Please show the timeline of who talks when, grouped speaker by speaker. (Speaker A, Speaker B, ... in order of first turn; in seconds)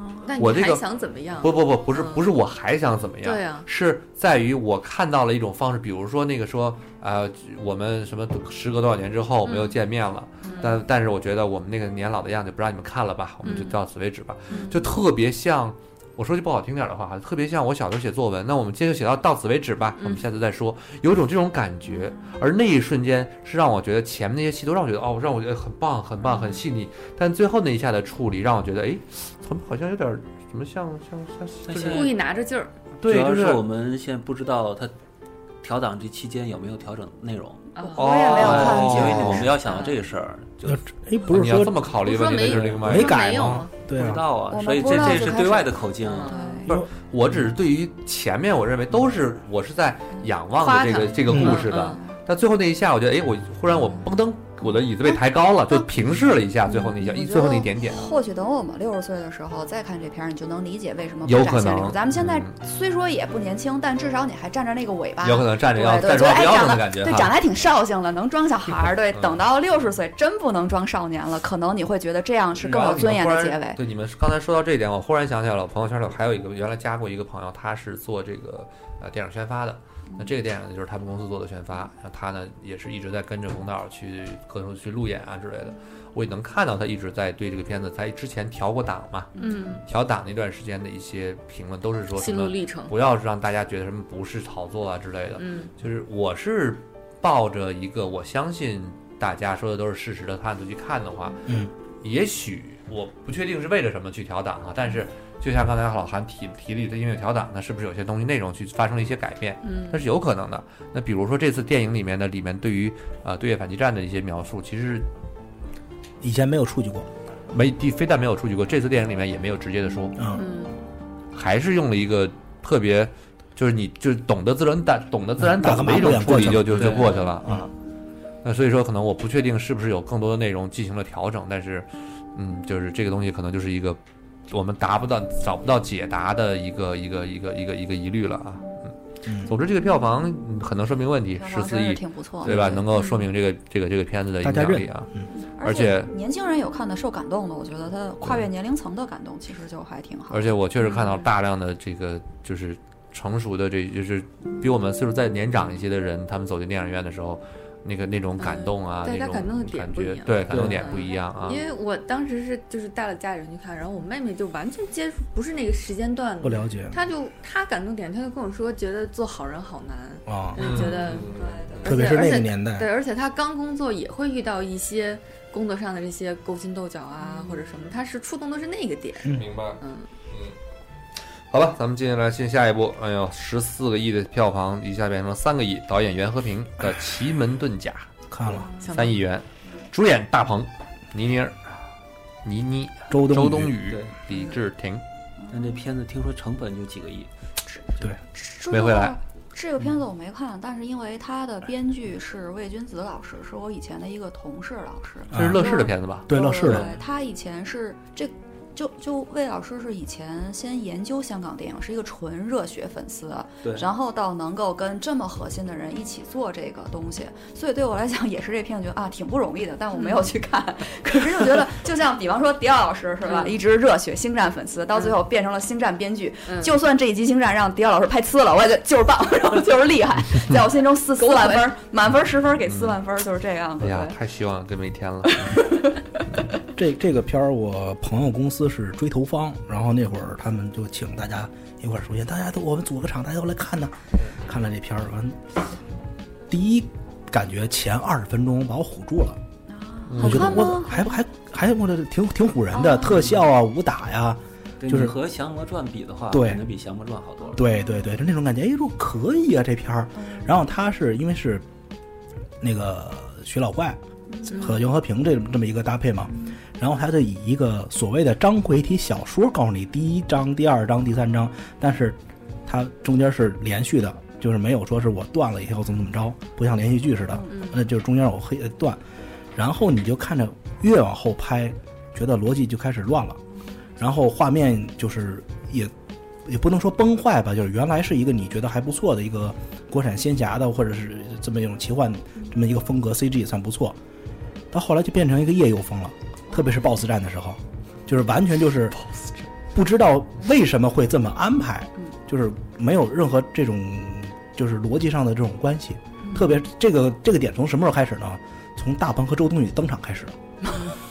Speaker A: 0.2-2.3, 3.2-3.7, 9.4-9.8, 10.4-10.8, 13.4-13.8, 14.5-14.8, 31.8-32.7, 37.8-38.7, 42.0-43.7, 46.0-46.6, 50.6-52.0, 89.4-89.8, 92.2-92.9, 95.4-95.7, 109.6-110.0, 120.4-120.8, 142.9-143.2, 150.8-151.2, 158.4-180.1, 188.8-189.2, 219.9-220.3, 223.3-223.6, 226.4-226.7, 231.2-231.7, 264.5-264.8, 277.5-277.8
Speaker B: 0.4-0.8, 1.4-32.1, 33.0-33.6, 38.0-39.5, 41.3-43.2, 46.7-58.1, 61.2-62.5, 65.2-67.3, 69.1-69.4, 72.6-101.4, 102.0-115.1, 117.5-120.2, 121.3-127.7, 128.4-145.1, 145.6-146.1, 150.3-161.7, 170.6-171.9, 179.3-180.6, 181.5-188.1, 188.9-191.8, 192.4-195.0, 198.7-199.2, 205.3-206.3, 232.6-233.0, 233.8-235.6, 250.1-250.7
Speaker C: 31.6-32.2, 33.0-34.9, 35.6-40.8, 43.9-46.4, 126.7-127.3, 160.5-160.9, 193.9-194.1, 195.5-197.3, 206.6-206.9, 254.8-257.6
Speaker D: 37.8-39.5, 44.5-46.7, 56.7-73.8, 89.4-89.6, 141.4-142.9, 145.6-150.5, 170.7-171.9, 197.7-234.2, 235.4-236.0, 249.7-251.2, 252.7-253.2, 260.2-260.4
Speaker E: 40.6-41.9, 42.8-44.3, 51.3-51.6, 101.5-101.7, 116.2-117.1, 120.2-120.4, 125.4-127.7, 139.3-139.5, 144.4-145.3, 166.4-167.0, 170.3-170.6, 171.8-172.9, 188.3-188.7, 193.1-193.8, 205.3-206.9, 236.8-245.5, 246.5-249.4, 250.2-255.2, 256.3-256.6, 257.5-261.6, 262.6-279.0, 279.6-283.4, 284.0-285.9, 286.4-294.0, 294.7-299.0, 299.7-310.4